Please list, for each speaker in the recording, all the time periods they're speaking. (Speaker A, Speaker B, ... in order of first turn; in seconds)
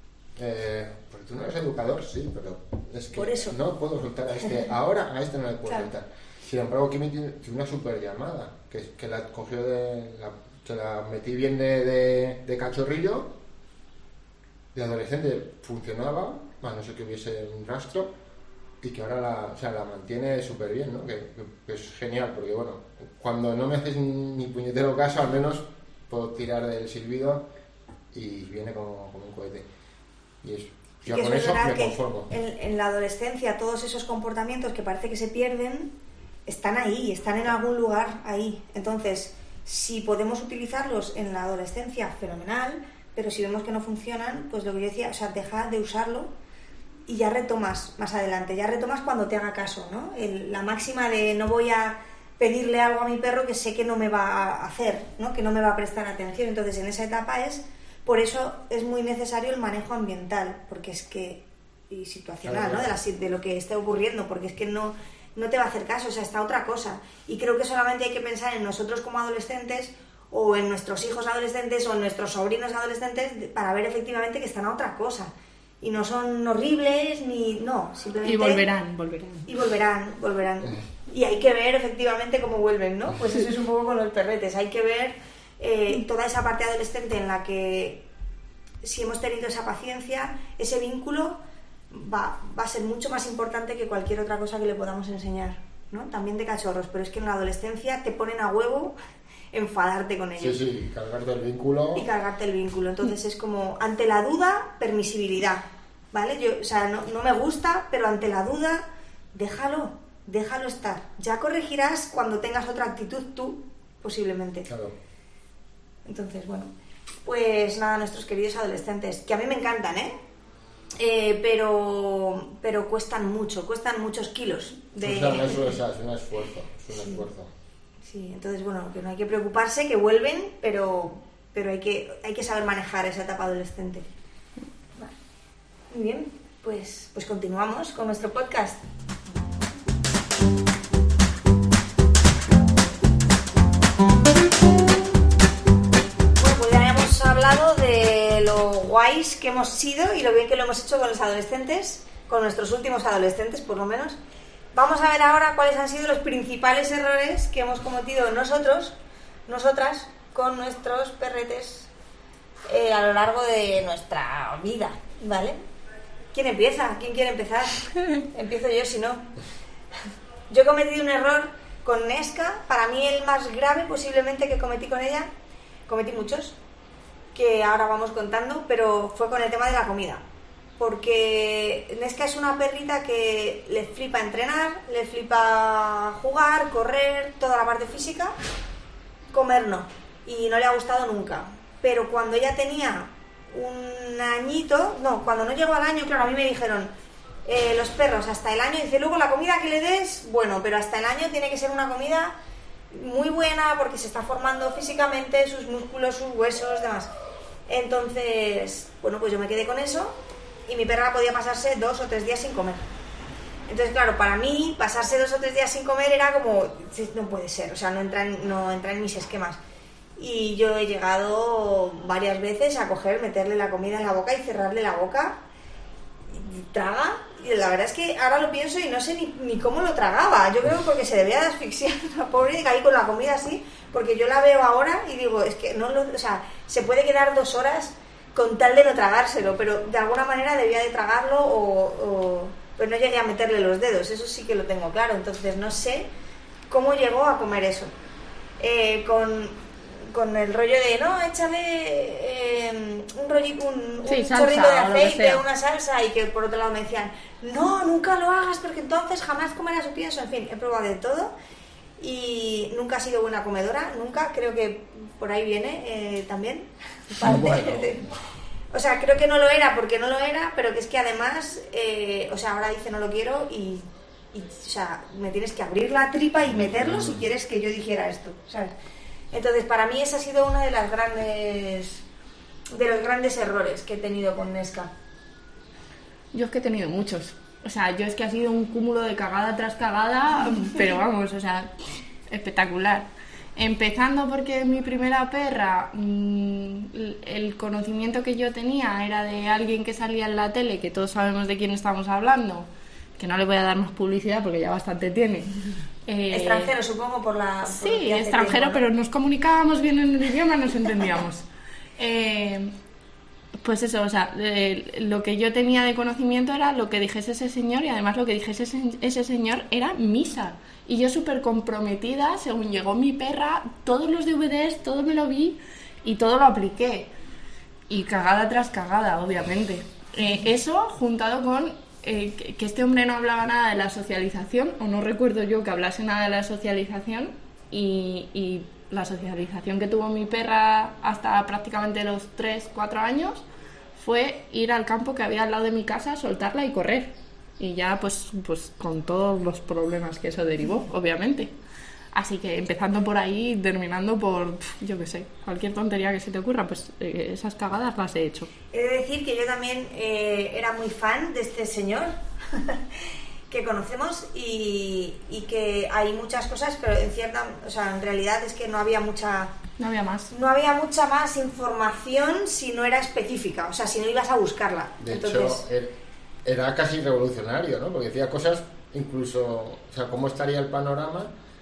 Speaker A: 0.3-13.3, 14.7-18.1, 18.8-27.4, 28.1-29.6, 30.4-32.3, 62.4-62.9, 100.4-102.0, 114.7-114.9, 125.0-127.5, 267.2-268.0, 276.6-277.2, 375.0-375.9, 376.4-381.3
Speaker B: 3.1-3.6, 31.0-35.9, 36.5-46.3, 47.1-78.6, 79.5-88.0, 88.8-91.4, 91.9-98.9, 99.5-100.6, 101.9-114.7, 116.0-116.7, 117.3-120.1, 121.0-125.7, 126.9-127.2, 128.0-134.1, 135.9-138.8, 146.3-154.2, 154.7-158.9, 159.5-161.9, 162.7-165.6, 166.3-169.3, 170.5-175.3, 175.9-176.6, 177.3-180.2, 180.8-188.3, 189.3-196.9, 197.4-202.3, 202.9-207.1, 207.7-212.8, 213.7-219.6, 220.2-225.4, 226.3-246.1, 246.7-247.9, 248.6-261.3, 262.0-268.1, 268.7-278.7, 279.3-282.0, 282.7-284.9, 306.3-308.8, 358.7-369.5, 370.3-375.6
Speaker C: 78.2-79.5, 254.1-255.4, 286.3-291.7, 292.3-305.5, 306.1-306.7, 307.6-311.4, 312.0-312.7, 313.6-327.1, 327.9-343.4, 343.9-351.5, 352.1-358.5, 369.8-370.3